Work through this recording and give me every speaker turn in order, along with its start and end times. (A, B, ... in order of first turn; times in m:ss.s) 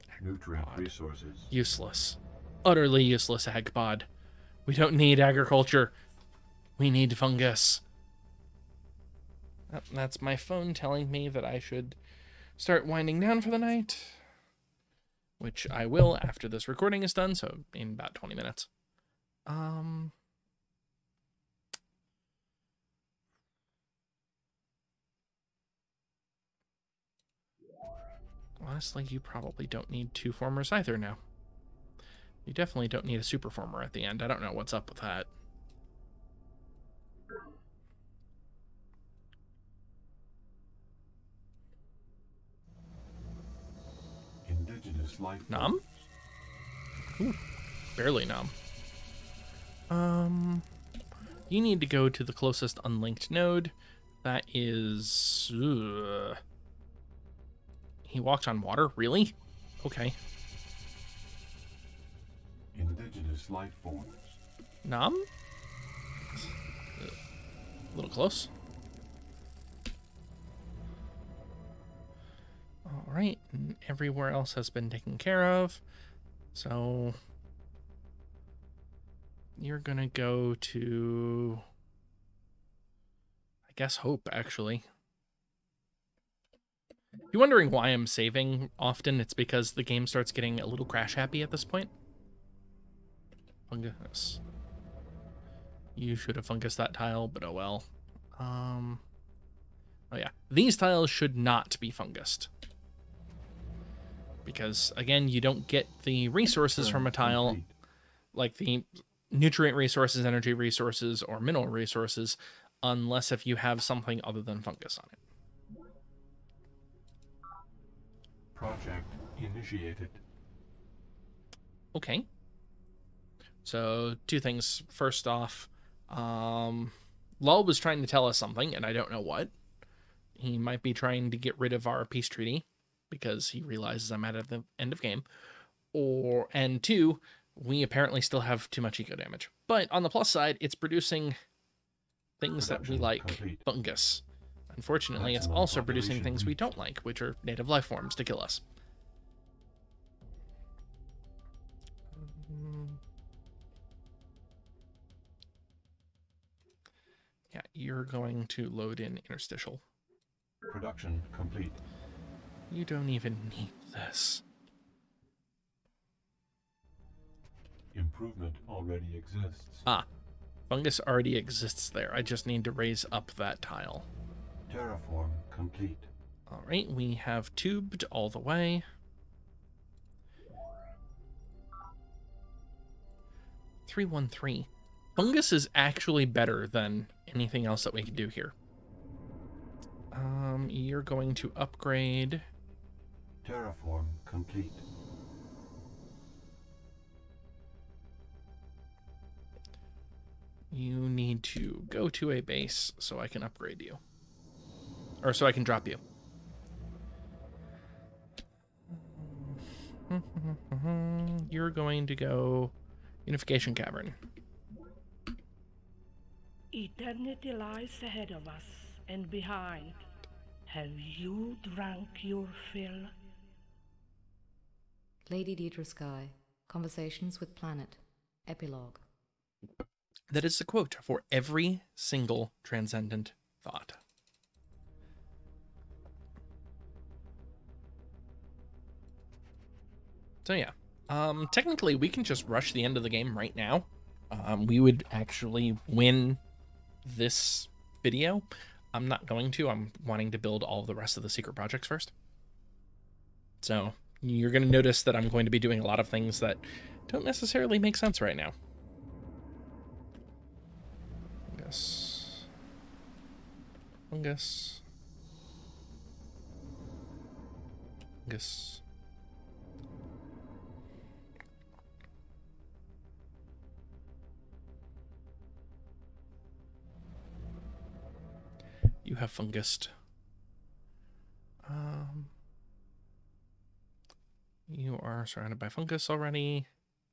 0:00.2-0:01.5 A
0:00.5-0:00.9 B
0:01.5-0:04.1 B
0:04.6-0:05.9 B
0:06.8-0:07.8 B
0:09.7-0:12.0 B
0:12.6-0:14.2 B
0:15.4-0:18.7 B
0:19.4-0:20.1 B
0:28.6-0:31.2 B
0:32.4-0:35.3 B
0:44.4-0:46.1 A
0:45.5-0:45.8 B
0:48.0-0:48.5 B
0:49.9-0:50.6 B
0:51.5-0:53.7 B
0:54.2-0:56.4 B
0:58.0-1:00.1 B
1:02.7-1:04.4 A
1:04.8-1:05.2 B
1:07.9-1:08.5 B
1:12.8-1:15.8 B
1:16.5-1:17.2 B
1:19.6-1:21.6 B
1:23.7-1:24.8 B
1:27.3-1:31.9 B
1:33.7-1:34.4 B
1:36.0-1:39.0 B
1:40.1-1:42.5 B
1:44.4-1:47.6 B
1:46.7-1:47.7 A
1:48.3-1:55.2 B
1:58.5-2:00.2 A
2:01.9-2:02.3 B
2:03.6-2:09.5 B
2:10.4-2:15.2 B
2:15.9-2:21.4 B
2:22.4-2:28.6 B
2:22.6-2:23.6 A
2:25.1-2:26.7 A
2:32.1-2:33.0 B
2:37.5-2:39.8 B
2:40.7-2:41.8 A
2:42.7-2:44.4 B
2:47.9-2:49.8 A
2:50.7-2:54.1 B
2:54.7-2:56.1 A
2:56.5-2:58.8 B
3:03.8-3:08.5 B
3:10.1-3:12.4 B
3:13.4-3:14.8 A
3:20.7-3:24.0 B
3:25.2-3:26.0 B
3:28.9-3:32.7 B
3:33.2-3:34.2 B
3:36.7-3:40.0 C
3:40.7-3:43.1 C
3:45.3-3:49.1 D
3:50.3-3:54.0 B
4:00.4-4:06.4 B
4:07.0-4:12.1 B
4:13.6-4:18.5 B
4:21.5-4:22.5 B
4:24.1-4:24.8 B
4:28.2-4:28.8 B
4:39.0-4:39.9 B
4:41.6-4:42.3 B
4:44.7-4:46.7 B